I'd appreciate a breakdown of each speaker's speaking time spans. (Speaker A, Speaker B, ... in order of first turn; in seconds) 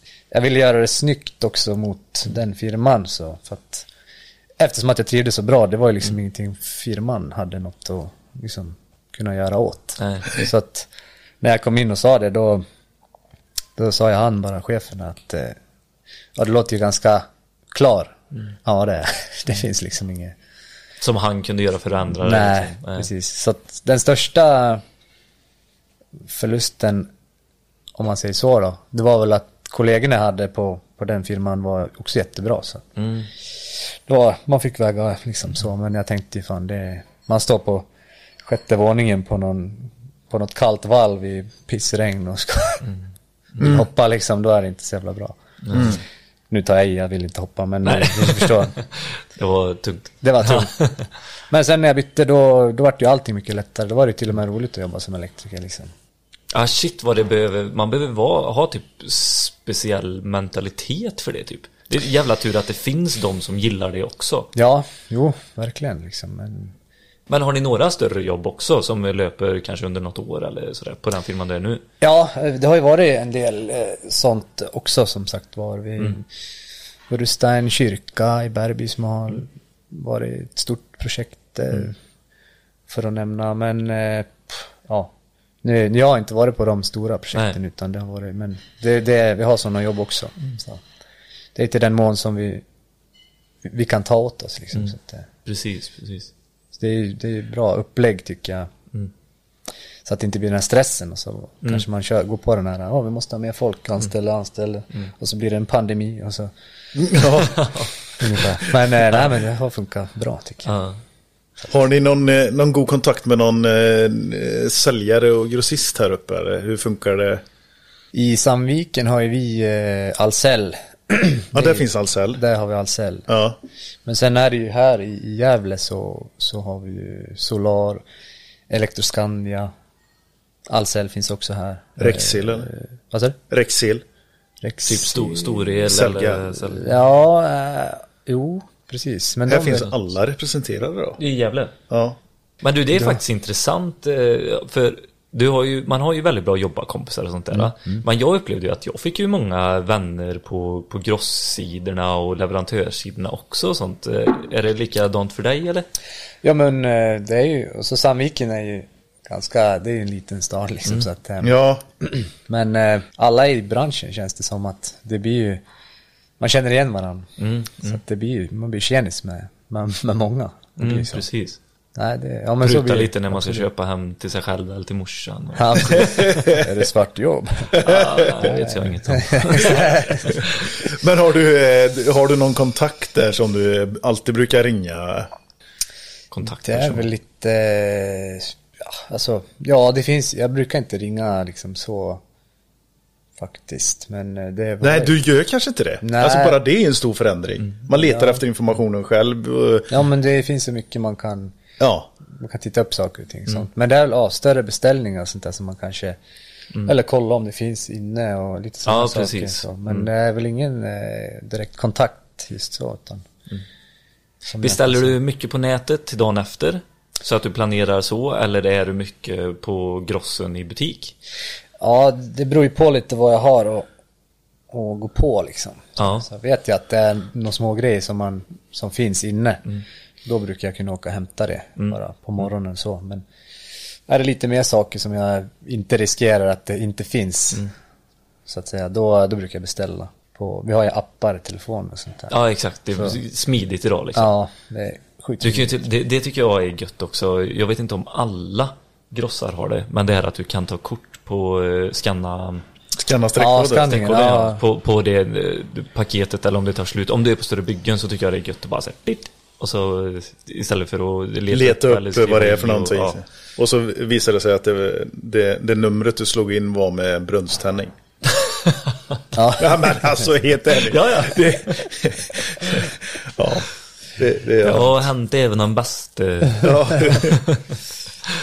Speaker A: 0.3-3.9, 4.6-10.9, 11.4-12.6, 13.8-15.6, 16.3-20.3, 22.2-24.8, 26.2-27.1, 27.9-32.8, 33.7-37.9, 38.4-42.9, 43.6-46.0, 46.5-48.7, 50.2-50.8, 51.5-55.9, 64.5-66.7, 72.0-76.2, 77.1-82.0, 82.9-90.8, 91.5-92.6, 93.6-95.3, 96.7-98.7, 100.0-106.5, 108.2-110.8, 118.1-123.3, 124.0-128.0, 128.7-129.7, 130.7-133.4, 134.6-135.7, 136.8-139.9, 142.9-143.2, 147.5-148.0, 156.4-165.6, 166.4-171.2, 171.9-173.7, 175.5-177.8, 178.4-180.3, 186.6-192.2, 193.4-195.2, 196.0-196.6, 197.9-198.4, 199.9-201.6, 202.3-206.2, 206.8-213.2, 214.5-215.2, 221.8-223.9, 224.7-229.7, 230.2-233.2, 234.1-237.7, 238.5-242.3, 244.1-245.8, 253.3-254.6, 269.3-270.2
Speaker B: 10.0-10.3, 21.0-23.1, 33.0-33.3, 45.6-46.0, 47.8-51.1, 56.5-64.5, 67.3-71.8, 95.4-96.3, 107.6-107.9, 110.6-111.0, 134.8-136.9, 141.2-141.7, 142.6-155.8, 167.4-168.0, 170.8-171.6, 172.6-176.4, 177.8-180.5, 186.3-187.1, 208.8-210.1, 214.6-221.2, 226.0-226.3, 242.3-244.3, 245.4-252.6, 253.8-263.2, 270.9-271.8, 274.6-277.6
Speaker C: 107.0-107.7, 111.6-117.4, 121.5-122.4, 123.3-123.6, 132.0-132.7, 133.5-134.0, 135.8-136.6, 139.5-141.2, 141.9-142.2, 161.4-161.8, 175.9-176.7, 177.7-178.3, 179.6-185.3, 194.8-199.9, 201.8-202.1, 252.9-254.0, 261.5-267.9, 269.6-275.0, 276.6-277.4